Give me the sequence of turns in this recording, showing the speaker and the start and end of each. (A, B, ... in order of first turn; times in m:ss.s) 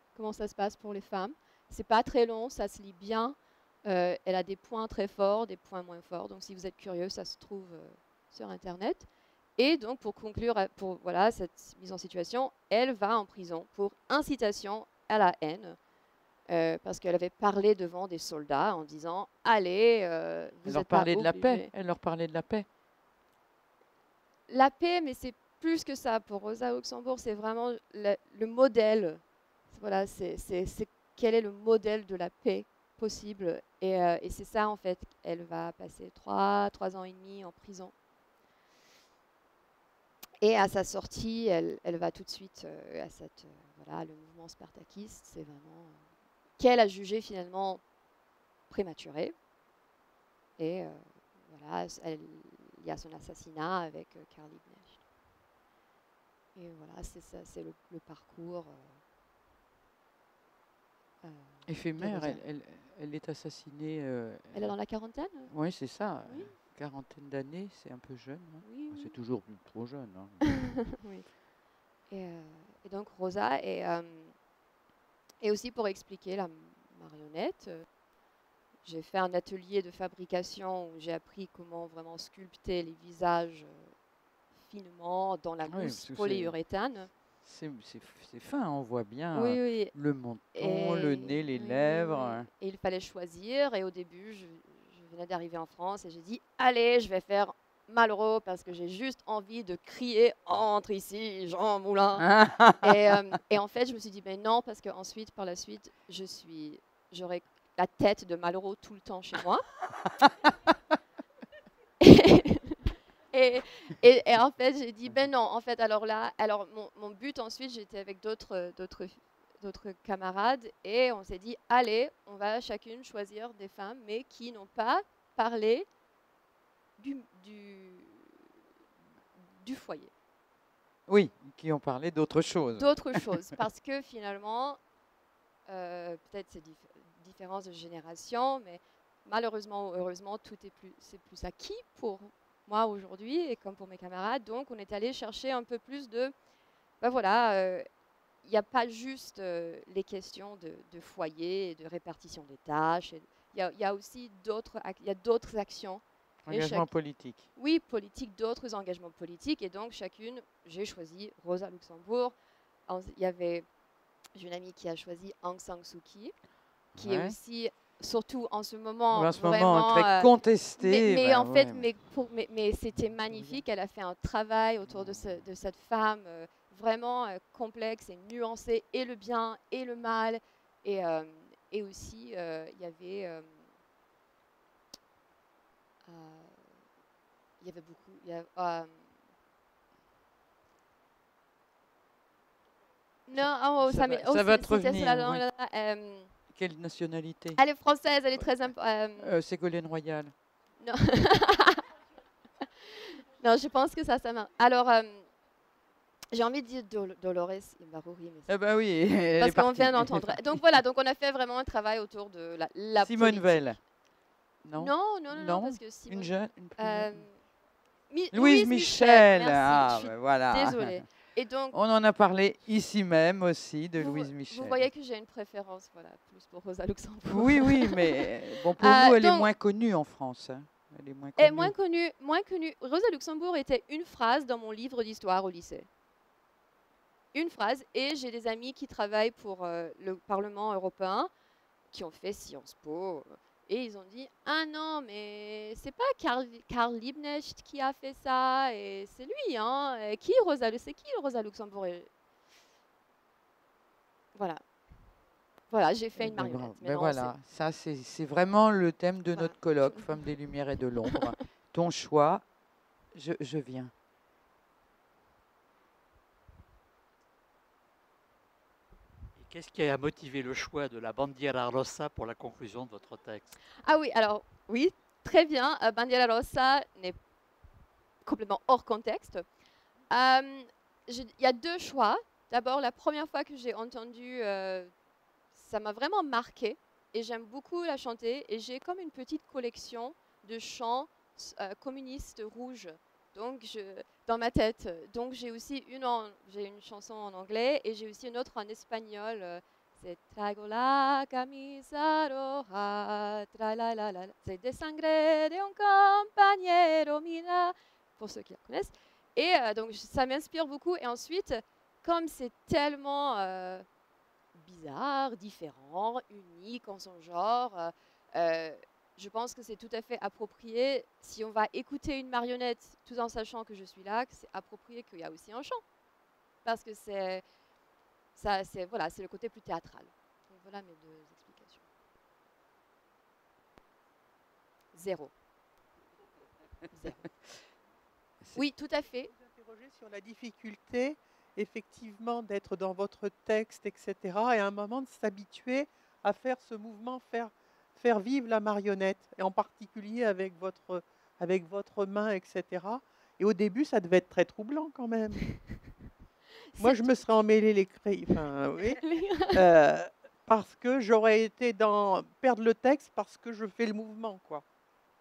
0:00.1-0:15.8 A
0:16.5-0:21.7 A
0:20.6-0:22.6 B
0:24.5-0:37.9 A
0:40.4-0:46.0 A
0:46.6-0:47.8 A
0:48.7-0:49.3 A
0:50.6-0:55.0 A
0:56.6-0:59.0 A
1:01.2-1:02.4 A
1:01.6-1:04.7 B
1:04.5-1:05.5 A
1:05.5-1:10.7 B
1:06.2-1:06.5 A
1:08.6-1:09.1 A
1:10.6-1:11.3 A
1:12.1-1:14.3 A
1:15.4-1:17.8 A
1:18.8-1:23.9 A
1:24.5-1:27.1 A
1:25.7-1:26.5 B
1:27.4-1:32.5 B
1:29.3-1:29.9 A
1:30.5-1:49.6 A
1:42.2-1:42.9 B
1:52.0-1:52.8 A
1:53.3-2:05.9 A
2:07.0-2:08.4 A
2:09.4-2:10.1 A
2:11.1-2:13.3 B
2:12.7-2:14.8 A
2:15.7-2:26.3 A
2:27.0-2:27.8 A
2:28.4-2:36.9 A
2:36.4-2:37.4 B
2:37.5-2:42.3 A
2:42.9-2:43.7 A
2:44.3-2:46.3 A
2:46.9-2:47.3 B
2:47.0-3:03.6 A
2:49.1-2:51.9 B
2:53.3-2:53.6 B
3:06.0-3:06.6 A
3:07.6-3:09.0 A
3:13.3-3:16.3 A
3:13.4-3:15.4 B
3:16.5-3:17.6 B
3:17.6-3:19.3 A
3:19.2-3:20.3 B
3:20.8-3:21.8 A
3:22.9-3:25.3 A
3:26.3-3:28.5 A
3:28.5-3:30.6 B
3:29.4-3:33.7 A
3:33.0-3:33.8 B
3:34.6-3:37.3 B
3:34.8-3:37.4 A
3:38.1-3:41.7 A
3:38.3-3:41.0 B
3:41.7-3:44.9 B
3:44.0-3:49.5 A
3:47.3-3:51.7 B
3:51.4-3:55.9 A
3:57.3-4:01.3 A
4:01.9-4:12.1 A
4:14.3-4:14.6 A
4:15.7-4:17.3 A
4:16.2-4:22.4 B
4:19.3-4:20.2 A
4:23.1-4:23.9 B
4:29.4-4:33.5 C
4:33.8-4:37.2 A
4:38.2-4:39.4 A
4:40.1-4:44.9 A
4:45.5-5:13.8 A
5:14.5-5:25.8 A
5:26.6-5:27.4 A
5:28.4-5:31.8 A
5:34.9-5:35.3 A
5:36.9-5:37.2 A
5:38.5-5:39.3 A
5:39.3-5:55.6 D
5:56.7-5:57.2 A
5:56.8-6:04.6 D
5:59.0-5:59.6 A